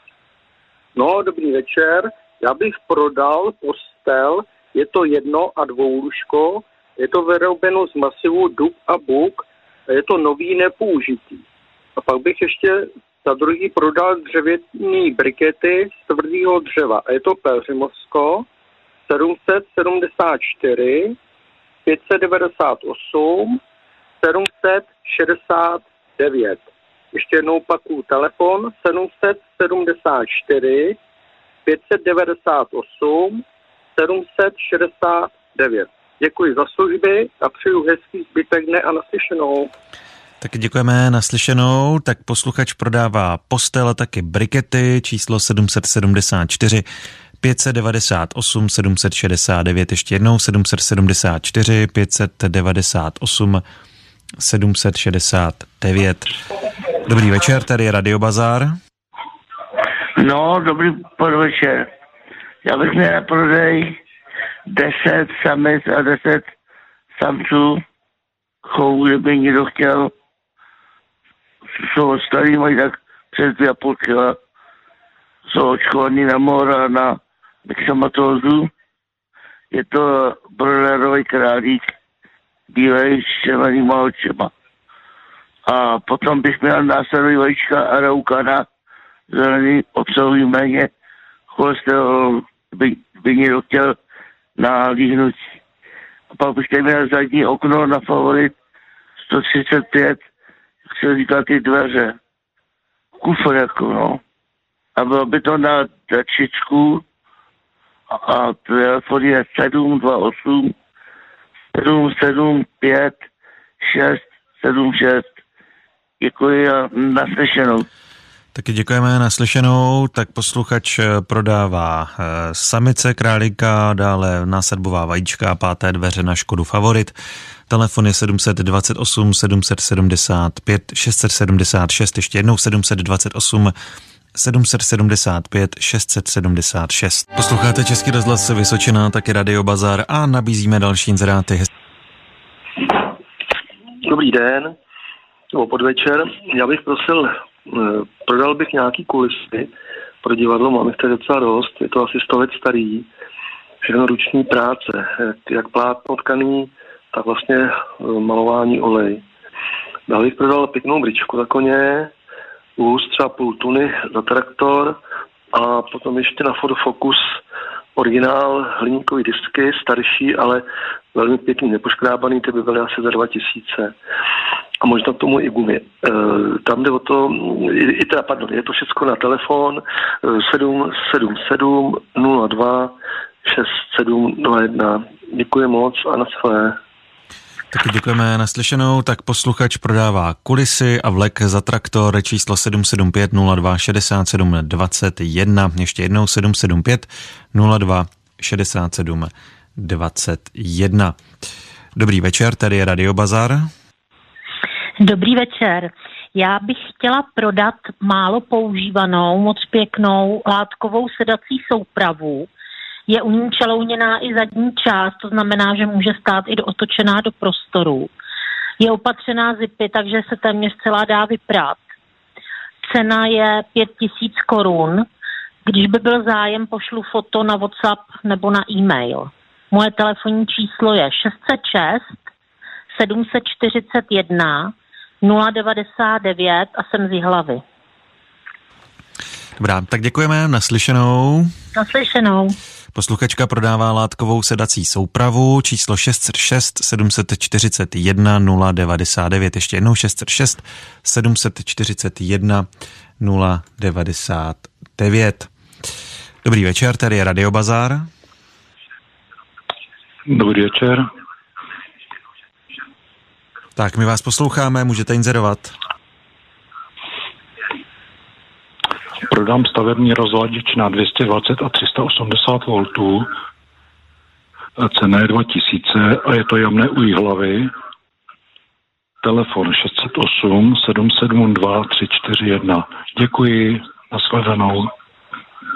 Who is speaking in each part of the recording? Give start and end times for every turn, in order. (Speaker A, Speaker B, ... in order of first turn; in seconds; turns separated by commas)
Speaker A: 0.9-11.4, Speaker A: 12.0-18.4, Speaker A: 19.1-21.1, Speaker A: 21.8-23.6, Speaker A: 24.2-31.0, Speaker A: 31.6-33.4, Speaker A: 34.0-39.7, Speaker B: 40.4-46.9, Speaker B: 47.4-53.6, Speaker B: 54.4-56.3, Speaker B: 57.0-58.7, Speaker C: 60.2-61.9, Speaker C: 62.6-64.0, Speaker C: 64.7-66.5, Speaker C: 67.2-67.8, Speaker C: 68.7-70.1, Speaker C: 71.9-74.4, Speaker C: 75.5-78.7, Speaker C: 79.7-81.9, Speaker C: 82.7-84.5, Speaker C: 85.7-88.7, Speaker C: 89.3-90.9, Speaker C: 91.5-94.0, Speaker C: 94.6-95.5, Speaker C: 96.3-98.5, Speaker C: 99.3-100.2, Speaker C: 101.0-102.2, Speaker C: 103.2-104.2, Speaker C: 105.0-107.0, Speaker C: 108.1-110.7, Speaker C: 111.7-113.2, Speaker C: 113.8-115.2, Speaker C: 116.2-117.8, Speaker B: 118.5-127.1, Speaker B: 127.7-133.7, Speaker B: 134.3-141.7, Speaker D: 144.0-144.8, Speaker D: 145.5-149.7, Speaker D: 150.2-153.1, Speaker D: 153.8-159.2, Speaker D: 160.1-162.1, Speaker D: 162.8-165.0, Speaker D: 165.5-167.2, Speaker D: 167.9-173.9, Speaker D: 174.8-186.8, Speaker B: 187.7-201.1, Speaker B: 201.9-203.6, Speaker E: 205.0-212.5, Speaker E: 213.1-218.1, Speaker E: 218.8-221.8, Speaker E: 222.9-225.1, Speaker E: 225.7-232.1, Speaker E: 232.9-237.6, Speaker B: 239.6-241.5, Speaker E: 241.8-242.6, Speaker B: 242.9-252.7, Speaker B: 253.2-255.5, Speaker B: 256.4-258.1, Speaker F: 260.3-261.0, Speaker B: 263.8-265.7, Speaker F: 269.3-273.2, Speaker F: 274.8-277.7, Speaker F: 279.2-284.9